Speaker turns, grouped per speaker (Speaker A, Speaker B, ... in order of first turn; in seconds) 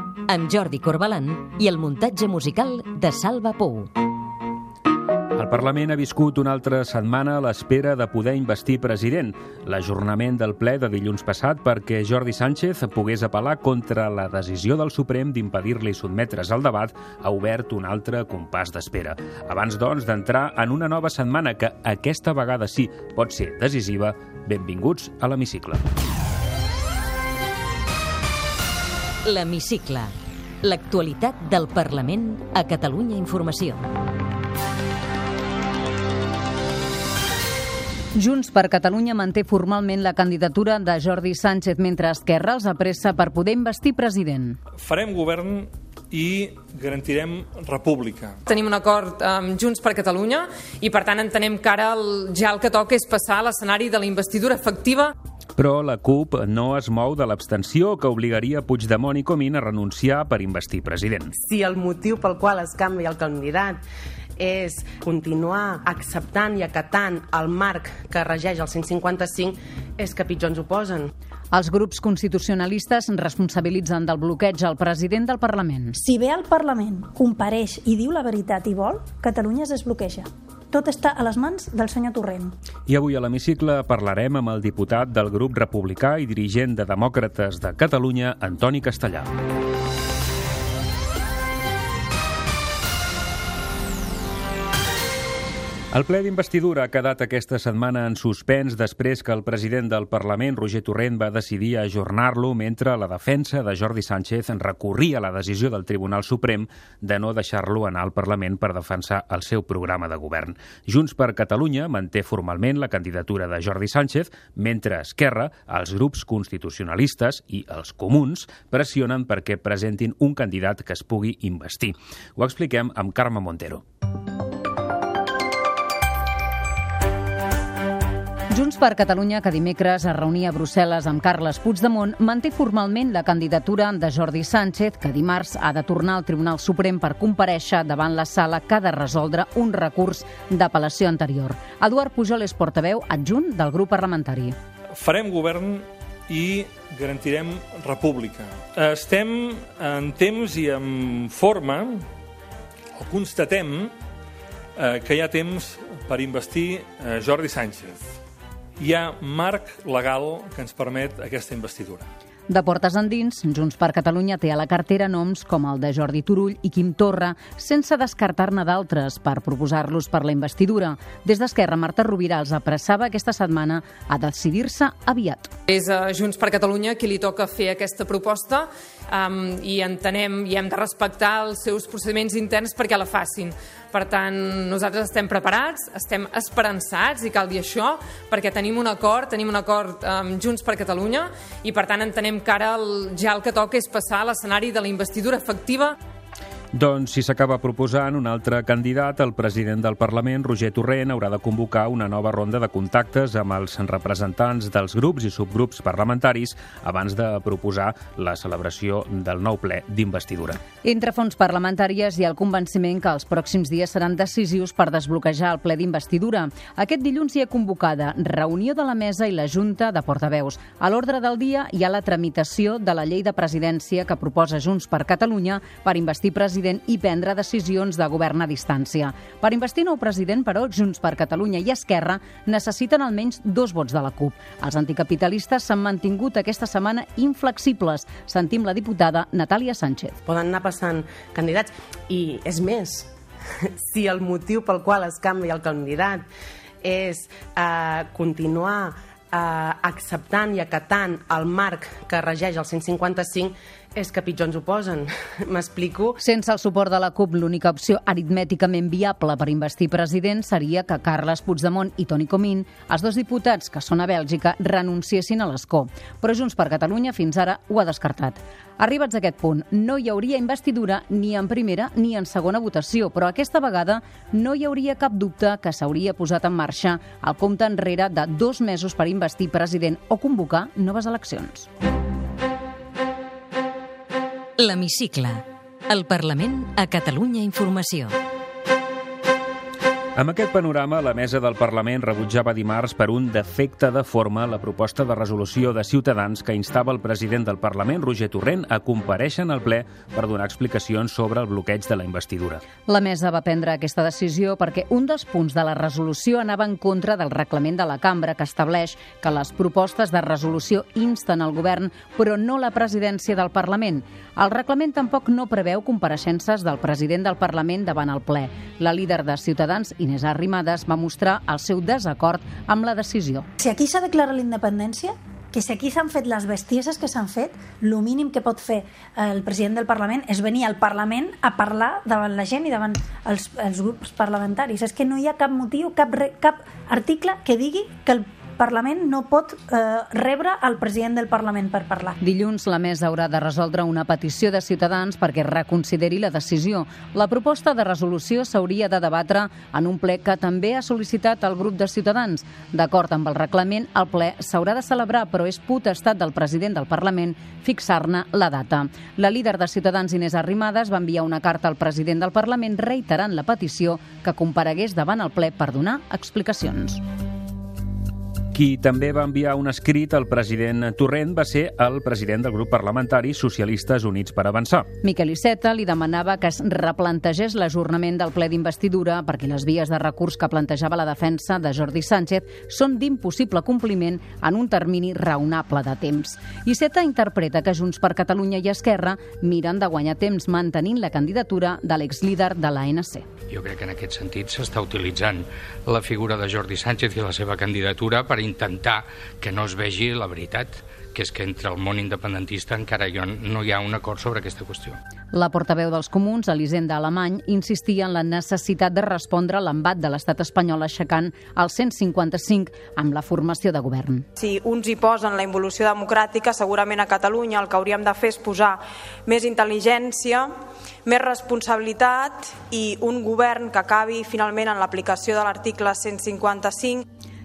Speaker A: 0.3-3.9, 29.2-33.8, 284.6-288.1
Speaker B: 5.3-25.8, 55.6-61.3, 82.9-89.3, 95.9-123.8, 196.7-210.6, 290.1-302.6, 368.5-374.9
Speaker C: 38.1-44.6, 71.5-76.0, 128.5-144.6, 162.5-175.5, 210.8-240.1, 256.2-281.7, 302.9-323.5, 342.2-367.0, 375.0-393.2, 405.3-414.2
Speaker D: 44.8-48.4, 144.9-152.1, 152.9-153.9, 154.8-158.1, 158.8-162.1
Speaker E: 48.5-55.1, 175.7-195.9
Speaker F: 61.4-63.8, 64.4-71.1, 240.2-243.1, 243.8-246.2, 246.8-256.2
Speaker G: 76.0-82.5, 323.6-342.2
Speaker H: 393.5-405.0
Speaker I: 414.4-420.5, 421.0-427.0